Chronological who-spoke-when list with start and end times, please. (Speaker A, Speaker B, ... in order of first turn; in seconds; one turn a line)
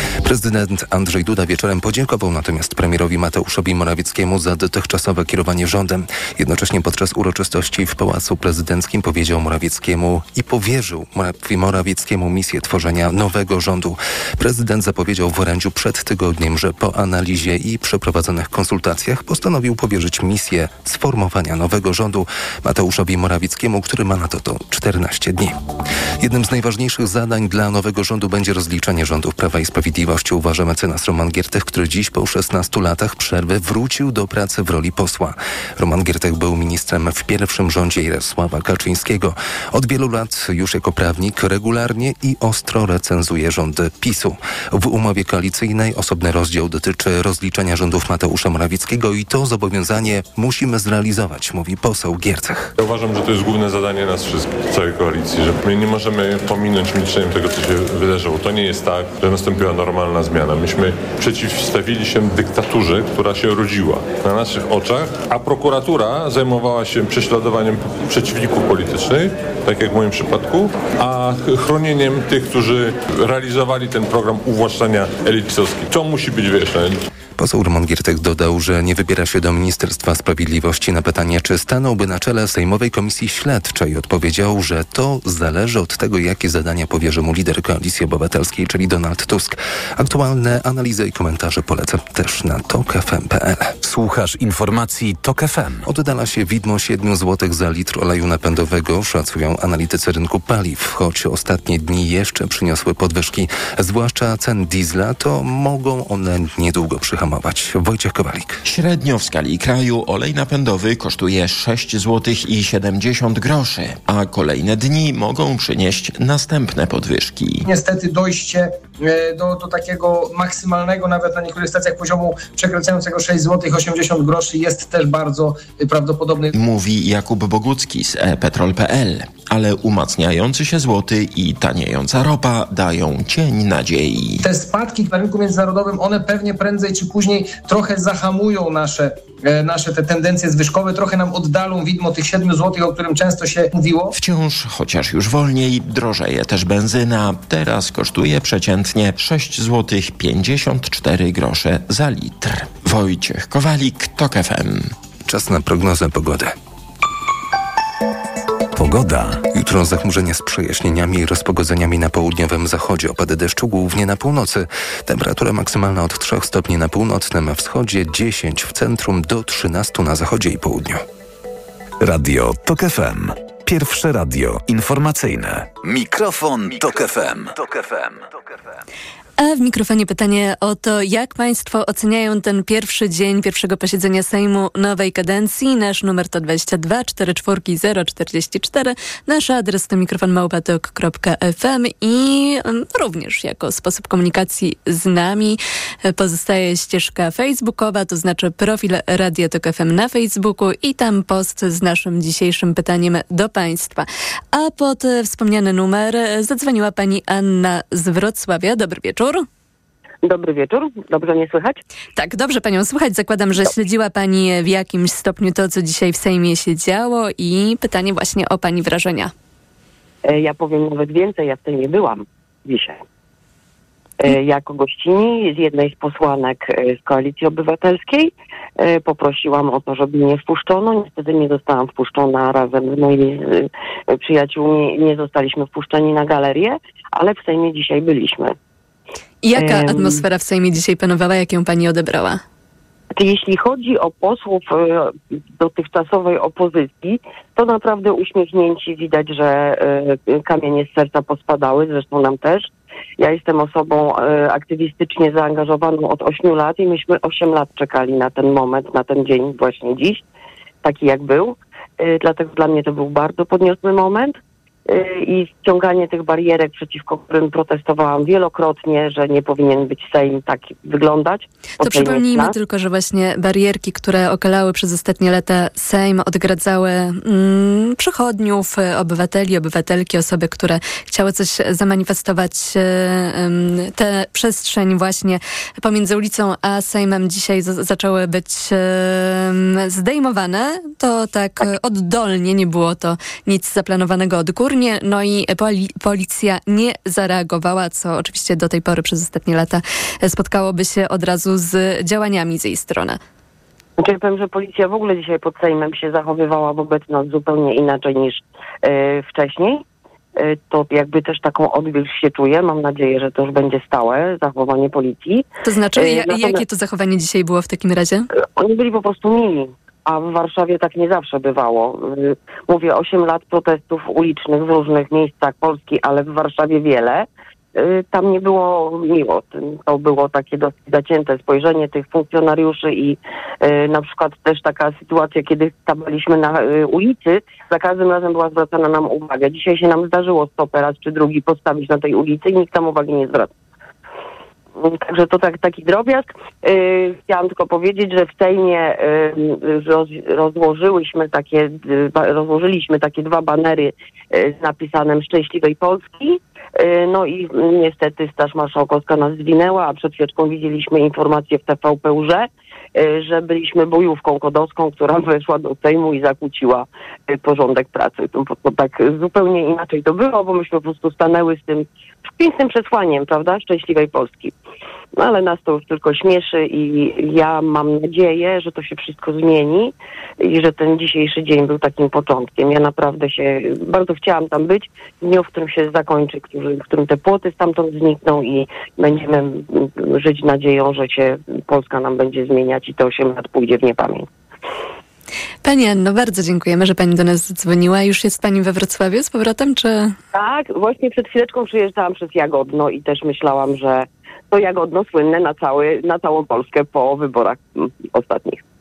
Speaker A: 0.2-25.6
Speaker A: 26.2-52.7
Speaker B: 52.8-77.0
Speaker A: 77.4-93.7
Speaker C: 93.8-95.9
Speaker A: 95.8-108.6
Speaker D: 108.6-117.6
Speaker E: 117.6-126.5
Speaker D: 126.5-134.4
Speaker E: 134.4-144.1
Speaker D: 144.1-154.9
Speaker A: 155.2-156.5
Speaker C: 158.8-159.4
Speaker A: 159.5-171.0
Speaker C: 172.0-178.3
Speaker F: 179.4-209.4
Speaker G: 210.2-211.8
Speaker F: 212.2-219.3
Speaker G: 220.2-223.0
Speaker G: 224.2-238.5
Speaker F: 239.4-242.4
Speaker G: 239.6-240.2
Speaker G: 243.1-260.2
Speaker G: 260.8-272.5
Speaker F: 271.8-303.2
Speaker G: 304.0-309.8
Speaker G: 310.4-316.6
Speaker F: 315.6-318.3
Speaker G: 318.4-343.5
Speaker G: 344.8-374.5
Speaker G: 375.1-394.3
Speaker F: 395.6-400.1
Speaker G: 400.3-408.6